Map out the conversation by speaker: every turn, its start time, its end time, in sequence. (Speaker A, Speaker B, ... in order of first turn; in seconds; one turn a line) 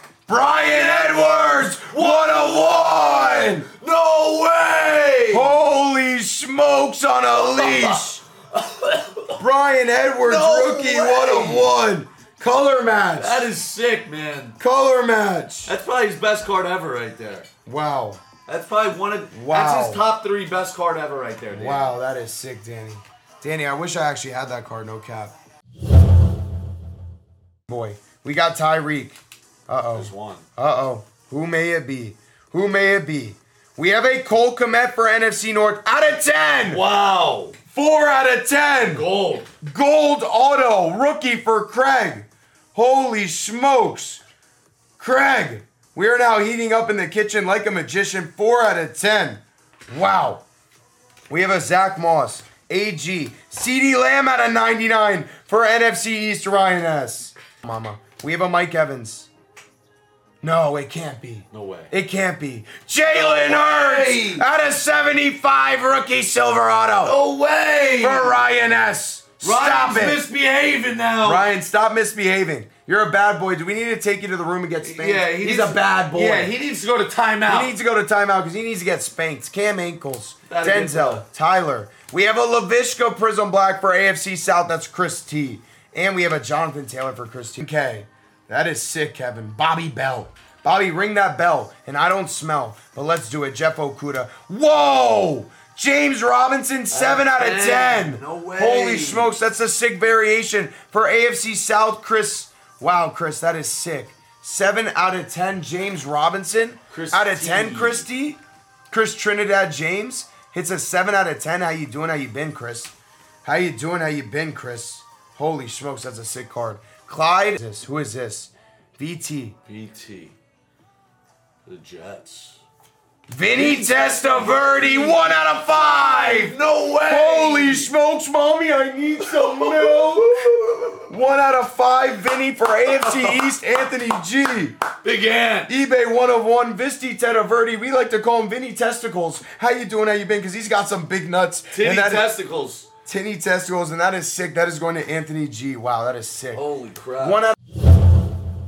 Speaker A: 0.3-3.7
Speaker B: 0.3-5.5
Speaker A: 5.3-8.2
Speaker B: 7.3-9.4
Speaker A: 9.4-13.5
Speaker B: 10.2-11.7
Speaker B: 13.2-14.6
Speaker A: 14.6-15.7
Speaker B: 15.7-17.5
Speaker A: 17.6-18.2
Speaker B: 18.5-21.9
Speaker A: 19.3-20.0
Speaker A: 21.5-25.3
Speaker A: 27.7-36.8
Speaker B: 29.9-30.5
Speaker B: 36.7-37.6
Speaker A: 37.7-39.1
Speaker B: 38.7-39.5
Speaker A: 39.6-44.2
Speaker A: 45.0-50.4
Speaker A: 51.3-59.3
Speaker A: 60.4-67.2
Speaker B: 61.5-61.9
Speaker B: 63.1-64.5
Speaker B: 67.0-68.4
Speaker A: 68.0-70.2
Speaker B: 69.4-71.5
Speaker A: 71.2-76.5
Speaker B: 74.8-77.7
Speaker A: 77.5-108.4
Speaker B: 80.5-81.2
Speaker B: 96.9-99.3
Speaker B: 106.9-108.0
Speaker A: 108.9-112.9
Speaker A: 113.4-119.6
Speaker B: 119.7-120.3
Speaker B: 121.7-122.6
Speaker A: 123.3-130.4
Speaker B: 123.5-127.9
Speaker B: 129.2-131.1
Speaker A: 131.1-134.8
Speaker B: 132.9-133.4
Speaker B: 135.0-135.7
Speaker A: 135.7-142.3
Speaker B: 141.7-142.9
Speaker A: 143.0-146.6
Speaker B: 146.5-147.5